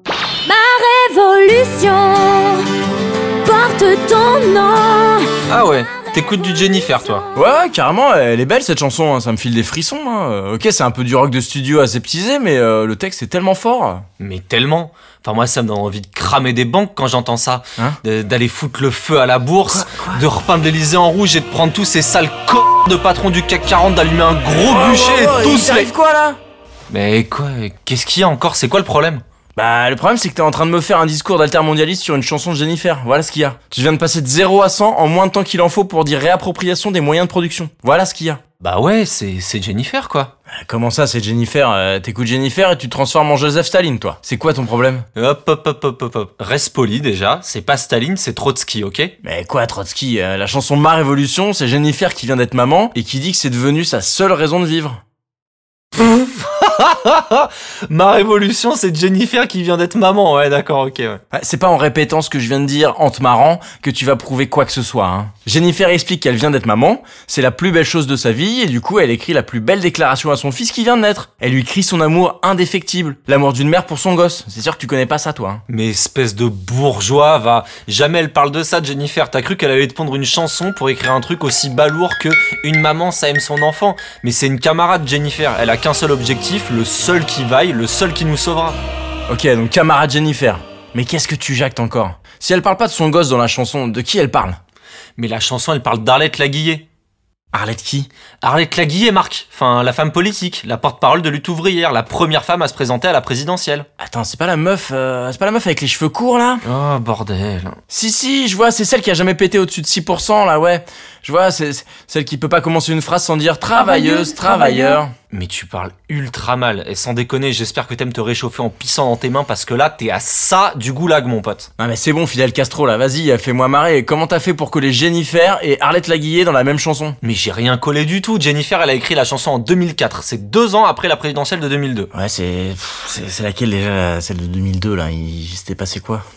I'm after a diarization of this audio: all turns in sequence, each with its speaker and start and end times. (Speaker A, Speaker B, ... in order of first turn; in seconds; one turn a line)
Speaker A: 0.5-2.6
Speaker A: 3.5-5.3
Speaker B: 5.5-7.3
Speaker C: 7.3-14.1
Speaker B: 14.2-25.9
Speaker C: 19.7-20.2
Speaker C: 24.5-26.4
Speaker B: 26.9-29.2
Speaker C: 29.6-38.4
Speaker B: 38.6-40.3
Speaker C: 40.5-45.1
Speaker B: 45.2-49.1
Speaker C: 49.2-55.0
Speaker B: 55.9-61.2
Speaker C: 61.3-75.6
Speaker B: 75.7-88.8
Speaker C: 89.3-94.6
Speaker B: 95.2-96.8
Speaker C: 97.5-98.1
Speaker B: 98.4-103.9
Speaker C: 104.0-106.6
Speaker B: 106.6-107.8
Speaker C: 107.9-115.1
Speaker A: 113.8-115.0
Speaker B: 115.3-121.7
Speaker C: 121.8-127.2
Speaker B: 127.2-132.1
Speaker C: 132.1-136.2